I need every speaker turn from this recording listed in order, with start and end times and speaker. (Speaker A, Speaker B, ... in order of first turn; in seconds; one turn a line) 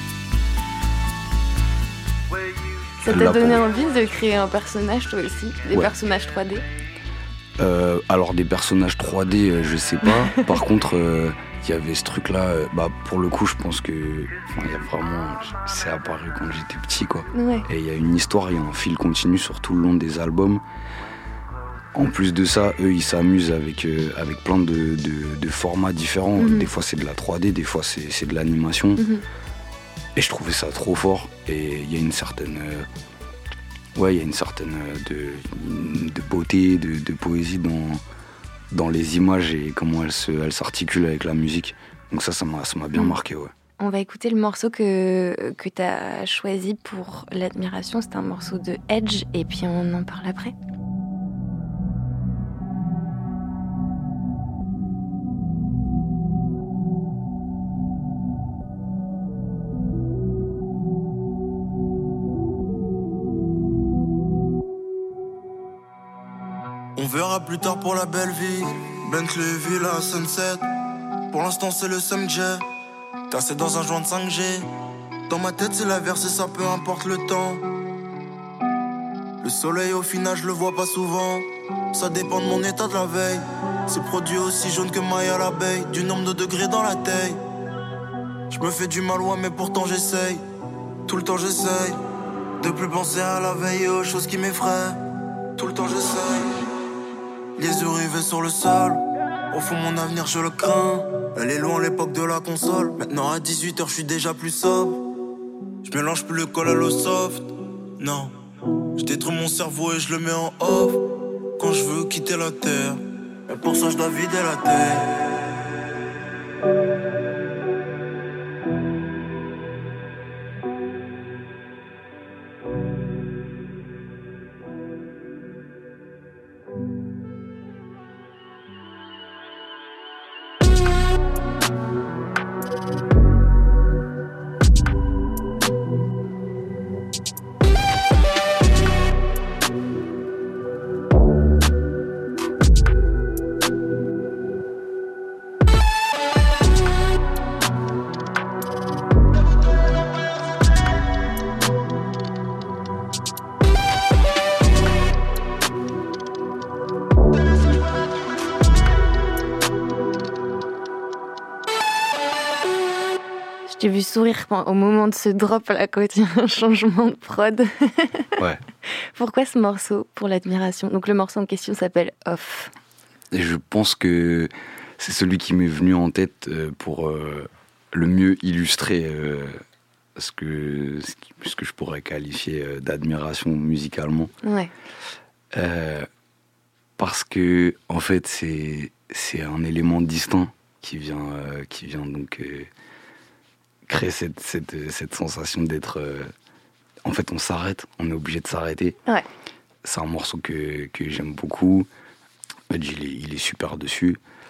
Speaker A: 2.3-4.3
Speaker B: 3.0-6.6
Speaker C: 3.1-3.6
Speaker C: 7.6-20.6
Speaker B: 10.0-10.5
Speaker B: 17.3-17.6
Speaker C: 21.9-29.0
Speaker B: 26.4-26.7
Speaker B: 29.0-29.2
Speaker C: 30.1-32.9
Speaker C: 33.9-38.0
Speaker C: 38.7-43.5
Speaker B: 43.8-50.5
Speaker D: 67.0-70.7
Speaker D: 71.3-72.6
Speaker D: 73.3-74.7
Speaker D: 75.3-77.7
Speaker D: 79.4-87.4
Speaker D: 88.5-90.4
Speaker D: 91.1-92.0
Speaker D: 92.6-95.0
Speaker D: 95.6-96.6
Speaker D: 97.6-105.0
Speaker D: 105.8-108.3
Speaker D: 109.0-115.6
Speaker B: 163.7-168.3
Speaker C: 168.4-168.6
Speaker B: 168.9-172.7
Speaker C: 173.3-179.6
Speaker C: 180.2-184.3
Speaker B: 184.4-184.7
Speaker C: 185.5-186.1
Speaker C: 187.0-192.7
Speaker C: 193.9-196.3
Speaker C: 197.0-199.0
Speaker C: 199.8-201.9
Speaker C: 202.7-204.2